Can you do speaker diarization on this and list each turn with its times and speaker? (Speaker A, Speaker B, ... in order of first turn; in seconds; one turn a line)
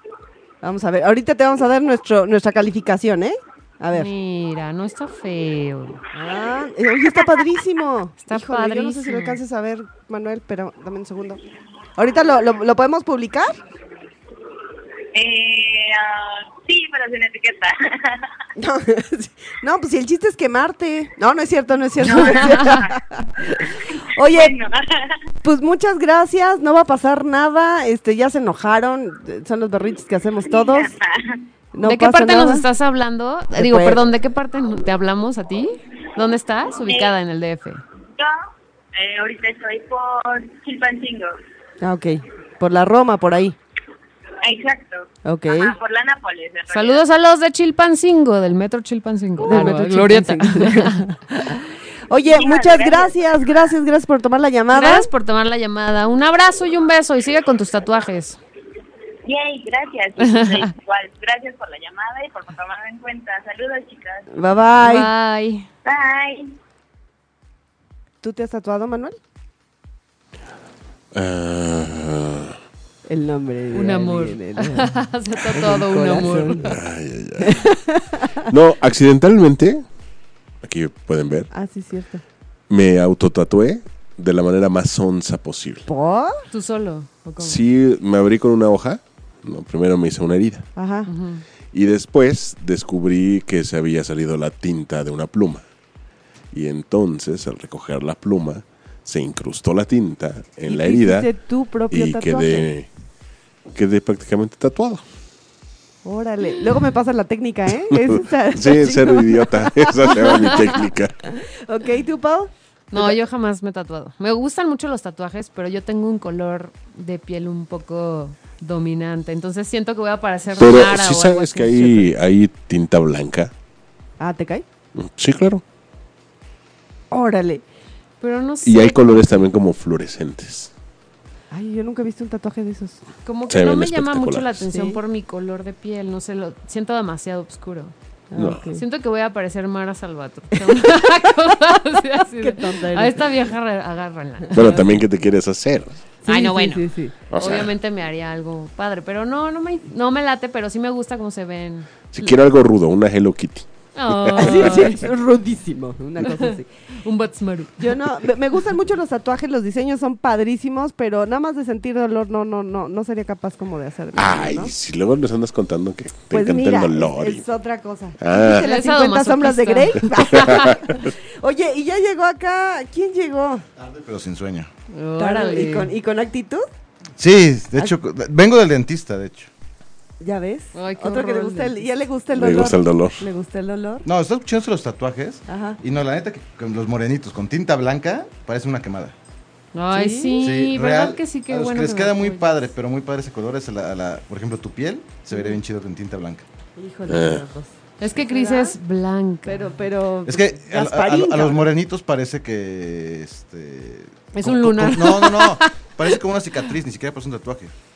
Speaker A: 0.6-4.1
Speaker B: 3.9-6.0
Speaker A: 6.1-11.4
Speaker B: 8.2-9.4
Speaker A: 12.0-13.6
Speaker C: 15.1-18.4
Speaker A: 18.6-24.5
Speaker C: 22.0-22.9
Speaker C: 23.9-25.2
Speaker A: 25.4-30.9
Speaker C: 30.5-31.4
Speaker A: 31.7-32.6
Speaker B: 31.8-37.8
Speaker A: 33.5-34.0
Speaker C: 36.9-37.1
Speaker C: 38.1-41.4
Speaker A: 41.8-43.5
Speaker C: 44.4-47.0
Speaker A: 45.2-45.7
Speaker B: 46.7-51.0
Speaker A: 49.5-55.1
Speaker C: 52.2-53.7
Speaker B: 54.7-58.4
Speaker C: 59.2-64.5
Speaker B: 60.2-60.7
Speaker A: 64.3-65.1
Speaker B: 64.8-65.7
Speaker C: 65.8-66.5
Speaker A: 68.2-69.2
Speaker D: 71.1-72.5
Speaker A: 73.1-75.0
Speaker B: 73.7-76.7
Speaker A: 75.5-76.8
Speaker D: 76.7-77.7
Speaker A: 77.4-78.4
Speaker D: 78.5-79.8
Speaker D: 80.6-81.5
Speaker A: 81.5-82.2
Speaker D: 82.7-85.9
Speaker A: 85.9-86.4
Speaker B: 86.5-87.6
Speaker D: 87.4-90.7
Speaker A: 90.8-91.1
Speaker B: 91.1-91.4
Speaker D: 91.7-95.7
Speaker D: 96.5-101.3
Speaker A: 100.7-102.7
Speaker D: 101.9-102.9
Speaker D: 103.7-105.0
Speaker A: 106.0-110.8
Speaker D: 107.9-111.2
Speaker A: 111.3-112.5
Speaker B: 112.9-121.9
Speaker D: 120.6-123.5
Speaker A: 124.2-124.6
Speaker D: 125.0-125.6
Speaker A: 127.1-127.6
Speaker B: 128.2-129.4
Speaker D: 128.6-130.7
Speaker A: 131.5-133.0
Speaker B: 133.2-137.9
Speaker D: 133.5-134.7
Speaker A: 134.7-135.0
Speaker A: 138.3-138.8
Speaker D: 138.3-138.7
Speaker B: 138.7-144.7
Speaker A: 142.4-143.3
Speaker D: 144.5-146.0
Speaker A: 146.2-147.2
Speaker B: 146.3-151.9
Speaker D: 147.3-147.7
Speaker D: 152.1-154.9
Speaker B: 153.9-155.1
Speaker A: 154.4-156.7
Speaker B: 156.2-157.9
Speaker A: 157.8-164.7
Speaker D: 164.1-167.4
Speaker A: 166.3-173.7
Speaker D: 168.2-168.7
Speaker B: 168.5-170.8
Speaker D: 170.2-171.0
Speaker E: 173.8-174.7
Speaker B: 174.9-175.9
Speaker A: 175.2-176.7
Speaker E: 177.2-179.5
Speaker A: 180.2-184.1
Speaker B: 180.7-181.9
Speaker D: 182.3-183.3
Speaker E: 184.0-189.1
Speaker A: 185.5-185.8
Speaker B: 189.7-192.7
Speaker A: 189.9-190.4
Speaker E: 190.4-196.4
Speaker A: 196.8-197.7
Speaker D: 197.1-197.4
Speaker B: 198.0-199.7
Speaker A: 198.2-198.8
Speaker A: 199.4-201.7
Speaker E: 200.2-207.7
Speaker B: 204.3-205.7